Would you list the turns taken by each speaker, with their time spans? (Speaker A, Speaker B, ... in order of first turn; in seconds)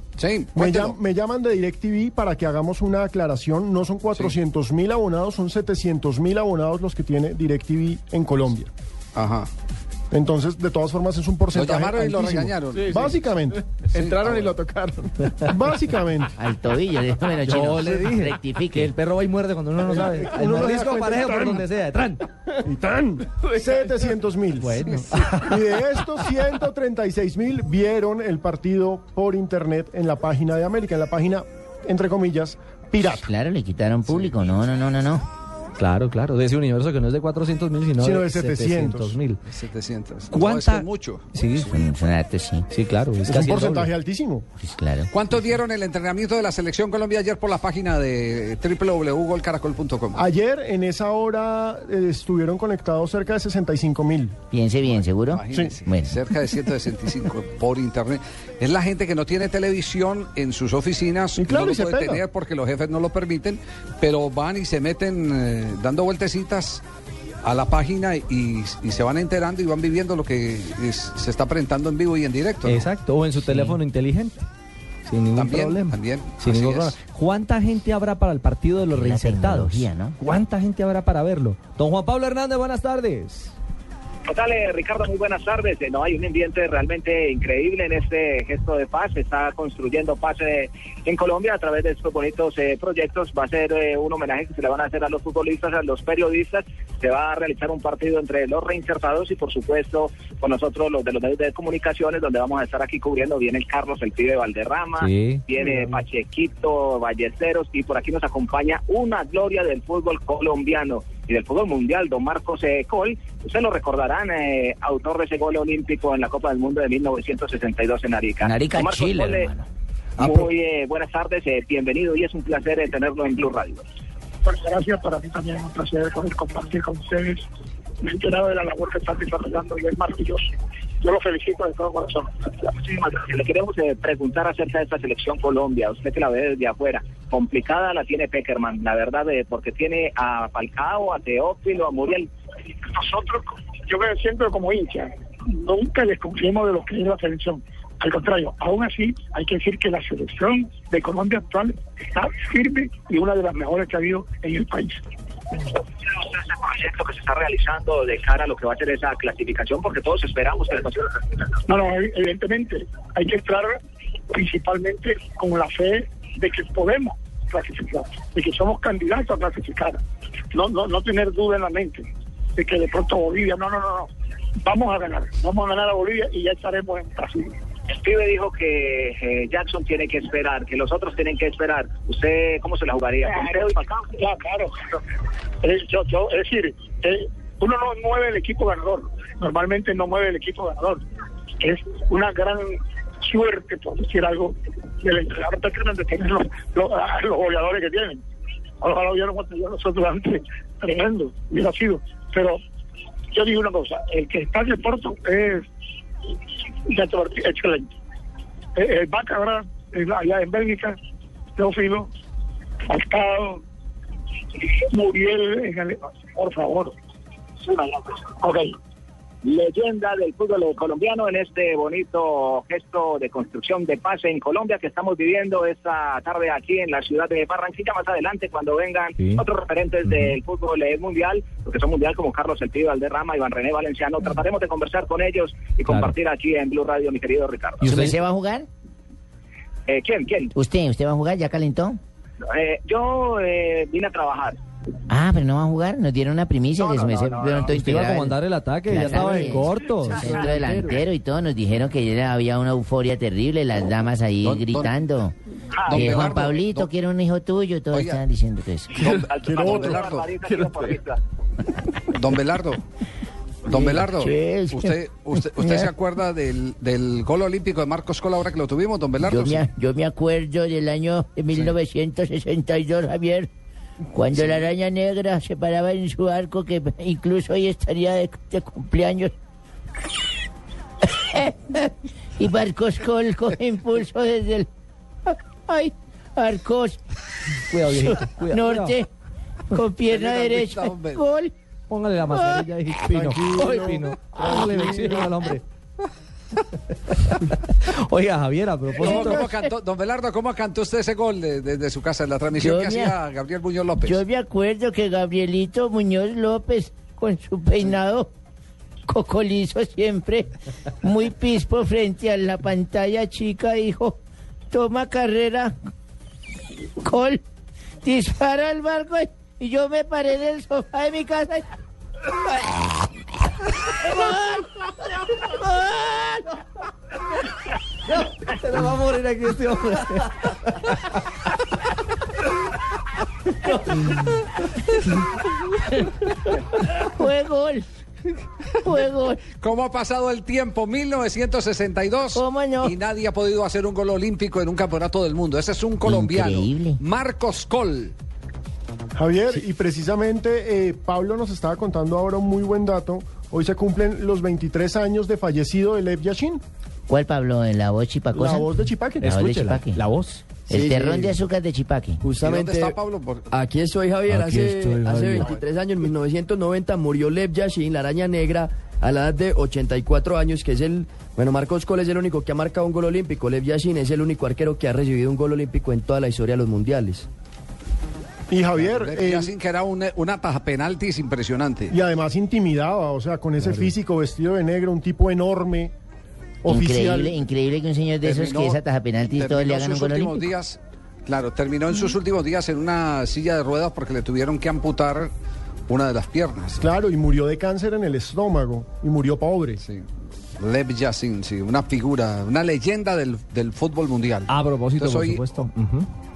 Speaker A: 0.2-0.9, 9.2-9.5, 11.5-13.0, 13.9-14.5, 24.8-25.4, 34.1-34.5, 39.5-41.3, 45.1-50.2, 54.8-66.8, 67.4-72.9, 75.3-77.0, 254.4-254.9, 255.9-256.9, 257.9-258.2, 258.9-260.3, 262.1-262.8, 263.6-269.7, 290.1-291.2, 299.0-304.2, 339.6-348.1, 362.4-363.5, 365.3-365.6, 378.7-381.9, 388.2-395.3, 395.9-396.9, 399.8-400.0, 400.6-405.6
Speaker B: 0.6-8.7, 10.1-13.6, 15.4-16.4, 19.9-21.7, 22.6-24.8, 25.3-33.3, 38.0-39.2, 43.3-44.5, 50.1-54.4, 61.4-62.2, 259.1-260.1, 293.1-295.3, 349.2-356.6, 358.3-359.3, 378.5-379.5, 381.9-385.9, 386.6-387.4, 396.8-399.8
Speaker C: 14.3-14.9, 249.1-251.0, 260.5-260.9, 360.7-361.4, 362.2-363.0, 363.5-377.3
Speaker D: 16.4-18.9, 33.0-35.2, 41.7-42.7, 44.6-45.1, 54.5-56.2, 73.5-73.8, 78.9-80.2, 118.4-119.7, 237.8-238.7, 240.6-242.0, 245.1-248.4, 248.9-255.3, 255.9-259.0, 263.7-265.9, 269.2-273.5, 274.1-279.3, 281.1-284.7, 285.3-287.0, 287.9-289.1, 289.7-291.5, 292.3-292.7, 299.0-299.6, 302.5-303.2, 304.0-308.3, 309.1-310.5, 311.0-314.2, 314.7-315.8, 317.0-317.4, 318.0-321.6, 322.5-323.0, 323.9-324.9, 325.4-326.6, 336.9-337.9, 338.8-339.4, 342.4-343.0, 346.0-347.0, 357.1-360.0, 360.7-362.2, 386.7-390.5
Speaker E: 17.4-22.3, 24.6-25.6, 35.8-39.4, 40.3-41.7, 42.7-43.9, 72.6-74.5, 75.1-83.5, 105.0-105.5, 230.1-230.3, 237.8-238.2, 247.7-250.4, 287.7-288.9, 291.9-295.6, 297.2-299.4, 328.1-330.6, 359.2-360.4, 364.3-365.4, 383.6-383.9, 404.5-406.1
Speaker F: 84.3-119.5, 120.2-123.8, 132.7-142.3, 156.0-161.2, 177.9-184.0, 219.4-237.9, 239.9-240.5, 242.5-244.6, 246.8-247.7, 255.8-256.4, 259.2-261.2
Speaker G: 120.2-120.5, 124.5-127.4, 128.0-130.5, 131.0-132.3, 142.9-155.0, 161.7-163.7, 164.3-170.0, 170.5-174.1, 174.6-177.5, 183.2-184.8, 185.6-191.0, 191.6-198.2, 198.8-202.6, 203.3-205.6, 206.9-207.9, 208.8-211.0, 211.6-212.1, 212.9-213.6, 214.9-216.9, 217.6-218.7